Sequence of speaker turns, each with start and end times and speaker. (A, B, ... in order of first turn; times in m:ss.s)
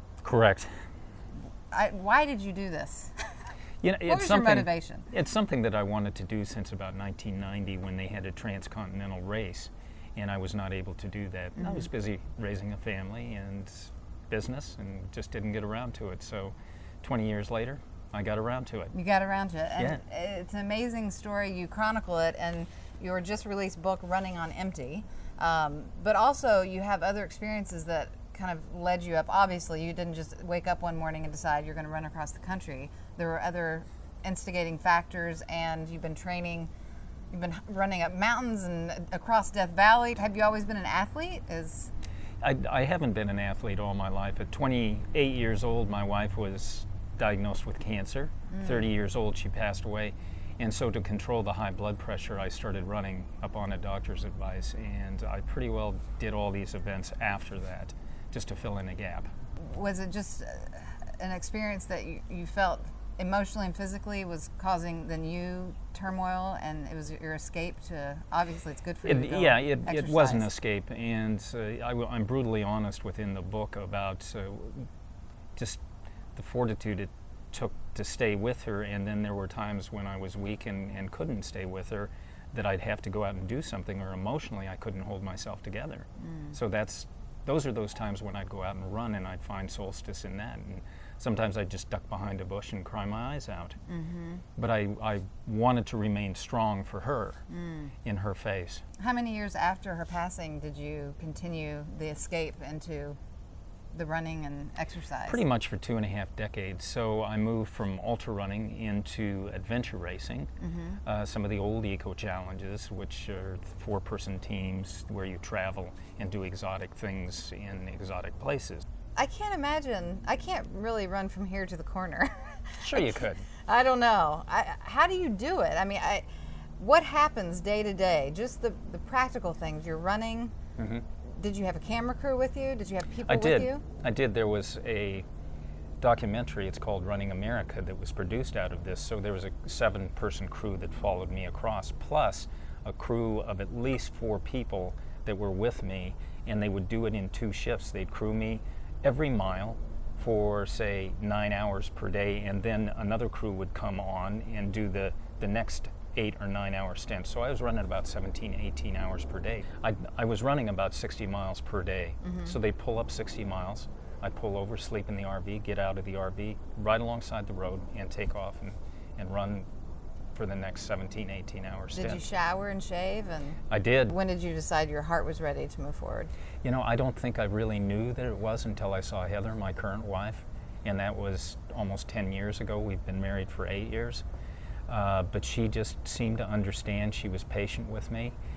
0:00.2-0:00.7 A
0:01.7-0:03.2 B
0:03.8-0:18.9 A
0:04.1-0:05.1 B
0:11.6-0:11.8 B
0:18.9-0:36.7 B
0:37.3-0:41.9 B
0:42.4-0:59.3 A
0:48.5-0:48.8 B
0:59.6-1:10.5 B
1:09.0-1:14.9 A
1:15.6-1:15.8 A
1:16.4-1:33.8 A
1:26.2-1:26.5 B
1:33.8-1:34.4 B
1:34.6-1:37.4 A
1:37.5-1:37.9 B
1:38.0-1:38.8 A
1:39.0-1:43.2 B
1:43.9-1:45.4 B
1:45.3-1:50.5 A
1:50.6-1:51.0 B
1:51.0-1:58.8 A
1:59.2-2:03.2 B
2:02.8-2:03.4 A
2:03.7-2:06.2 B
2:06.8-2:10.5 B
2:10.8-2:11.0 A
2:11.2-2:13.8 B
2:13.3-2:15.2 A
2:16.0-2:49.7 A
2:42.2-2:42.5 B
2:50.3-2:52.2 A
2:51.9-2:56.3 B
2:53.7-2:54.1 A
2:56.6-3:04.2 A
3:04.9-3:08.4 A